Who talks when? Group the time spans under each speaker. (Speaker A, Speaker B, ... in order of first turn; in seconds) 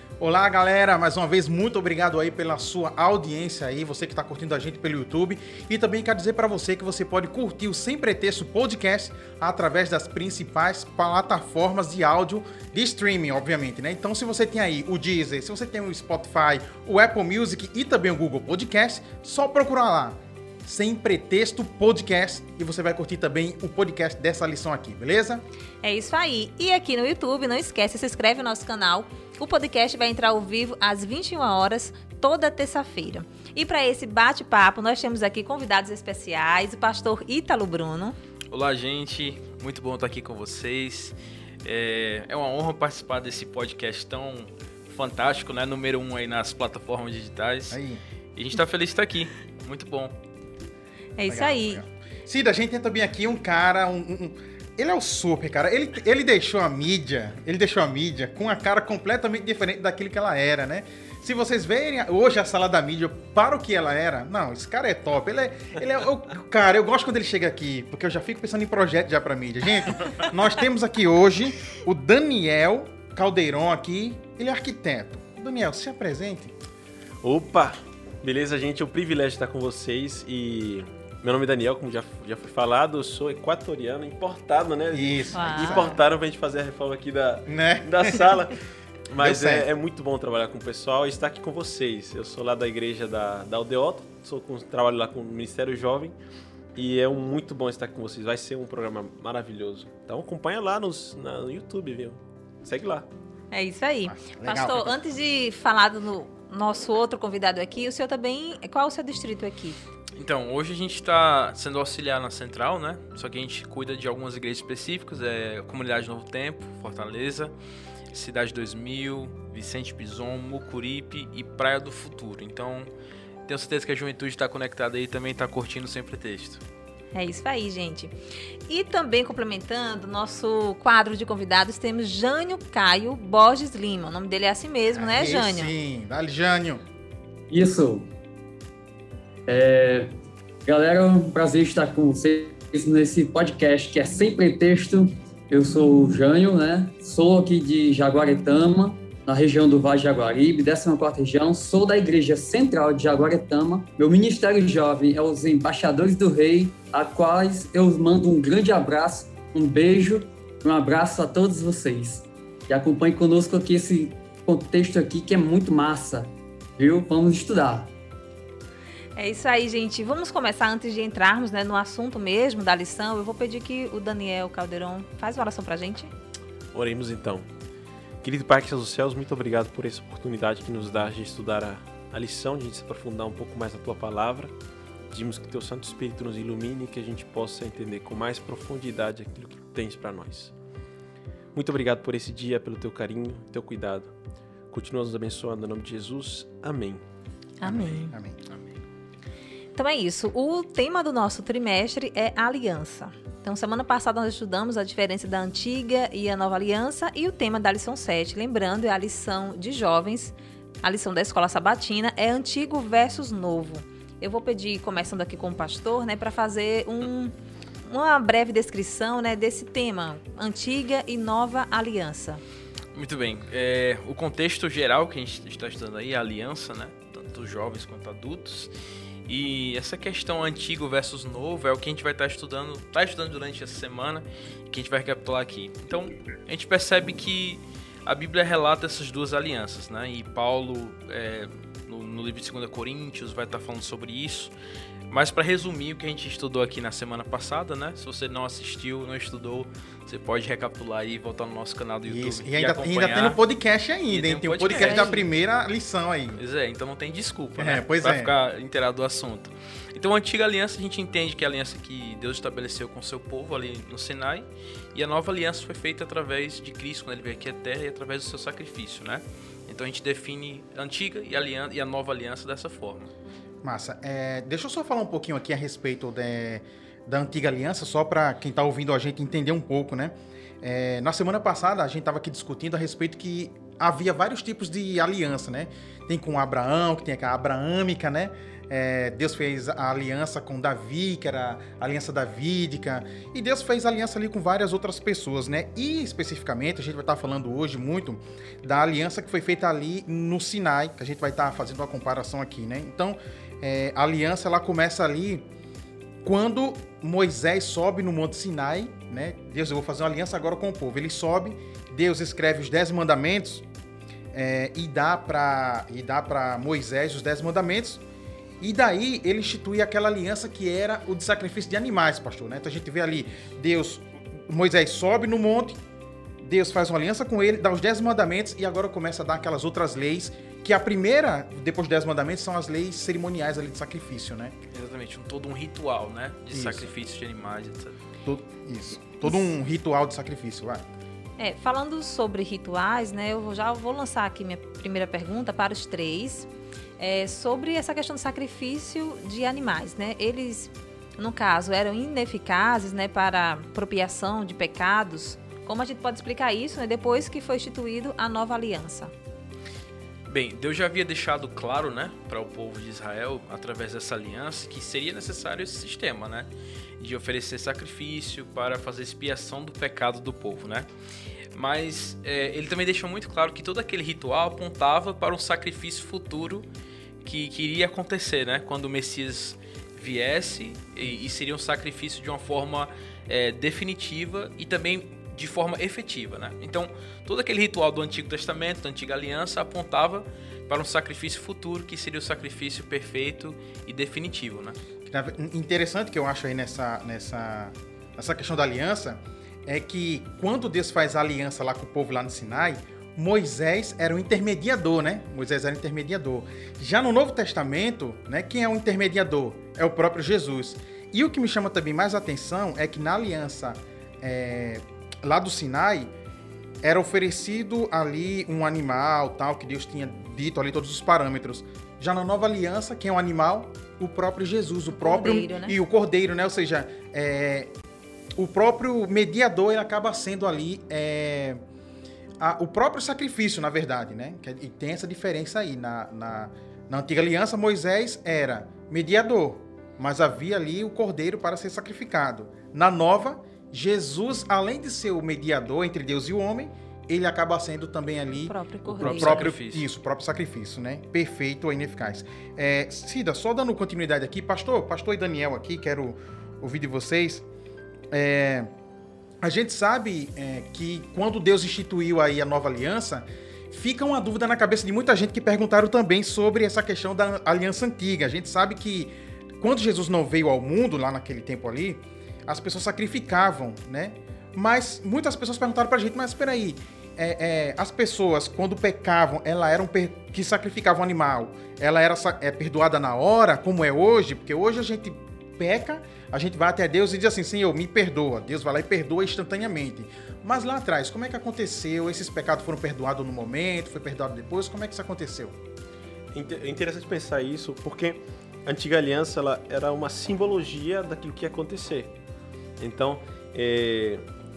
Speaker A: 0.2-25.4, 47.7-48.0, 51.3-76.5, 84.9-86.0, 87.5-88.3, 89.2-89.7, 104.0-105.0, 134.9-136.8, 197.6-198.4, 252.1-256.4, 257.6-258.3, 273.6-305.5, 306.2-313.6, 314.3-318.0, 318.6-325.8, 326.4-334.5, 336.5-336.9, 338.2-340.9, 395.1-416.1, 416.8-427.7, 428.4-431.6, 432.4-457.4, 458.1-458.7, 459.4-495.6
Speaker B: 25.8-38.2, 51.2-51.8, 85.3-86.0, 103.5-109.8, 127.1-128.1, 128.7-135.7, 169.2-176.1, 197.6-198.1, 199.8-217.3, 217.8-222.4, 254.7-255.2, 341.4-359.1, 424.9-425.8, 448.4-449.5
Speaker C: 38.5-47.8, 48.4-50.2, 110.2-117.5, 118.1-122.9, 123.5-126.6, 222.9-228.7, 229.3-244.5, 245.1-253.4, 254.1-255.1, 256.4-273.1, 334.7-338.0, 360.3-370.9, 371.5-376.7, 377.2-394.8, 448.9-449.9
Speaker D: 77.2-96.2, 96.8-103.1, 176.7-177.5, 178.2-184.5, 185.1-190.5, 191.5-194.1, 194.7-197.0, 496.3-502.1, 502.8-504.2
Speaker E: 137.5-138.1, 139.5-140.1, 140.7-167.9